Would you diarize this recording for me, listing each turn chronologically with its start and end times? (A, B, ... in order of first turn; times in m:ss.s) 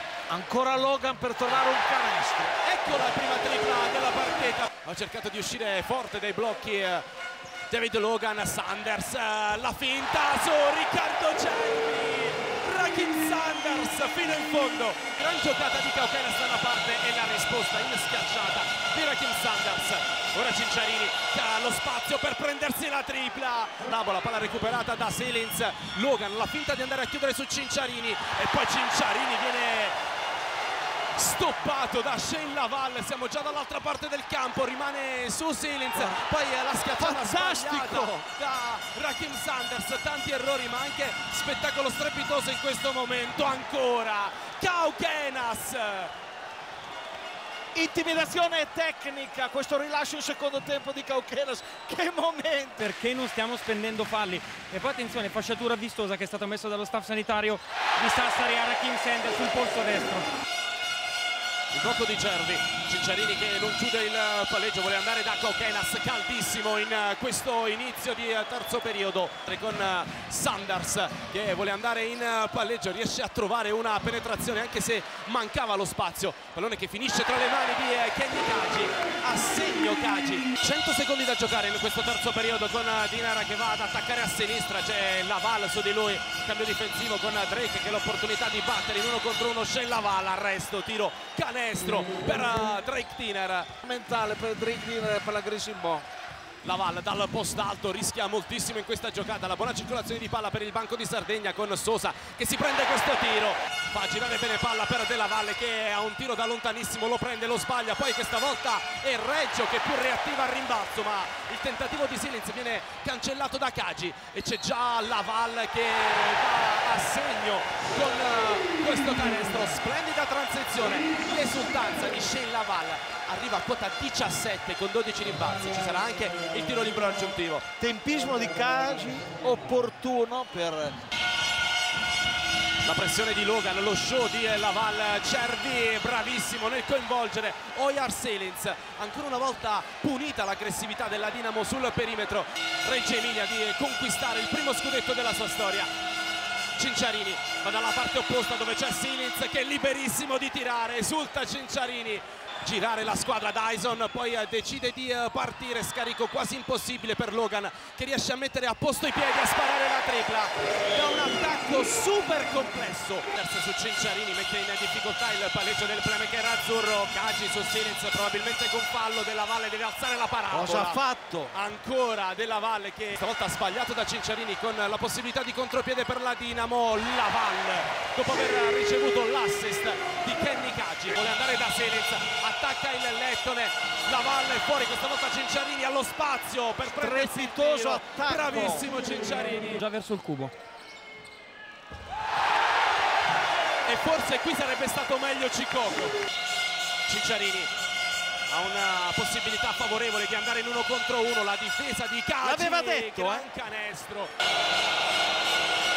0:00.3-0:02.6 A
0:02.6-0:07.0 B
0:07.7-0:30.0 B
0:31.2-0:46.1 B
0:35.9-0:36.2 A
0:37.0-0:38.3 A
0:47.7-0:52.9 A
0:52.8-1:00.3 C
1:01.7-1:33.7 B
1:33.8-1:36.1 A
1:36.6-2:07.7 B
2:07.8-2:11.0 A
2:12.8-2:25.9 B
2:26.8-3:09.8 B
2:50.5-2:51.5 A
3:06.9-3:08.9 A
3:09.8-3:10.5 C
3:13.8-3:16.2 B
3:17.1-3:17.7 B
3:18.5-3:24.3 B
3:22.4-3:23.5 A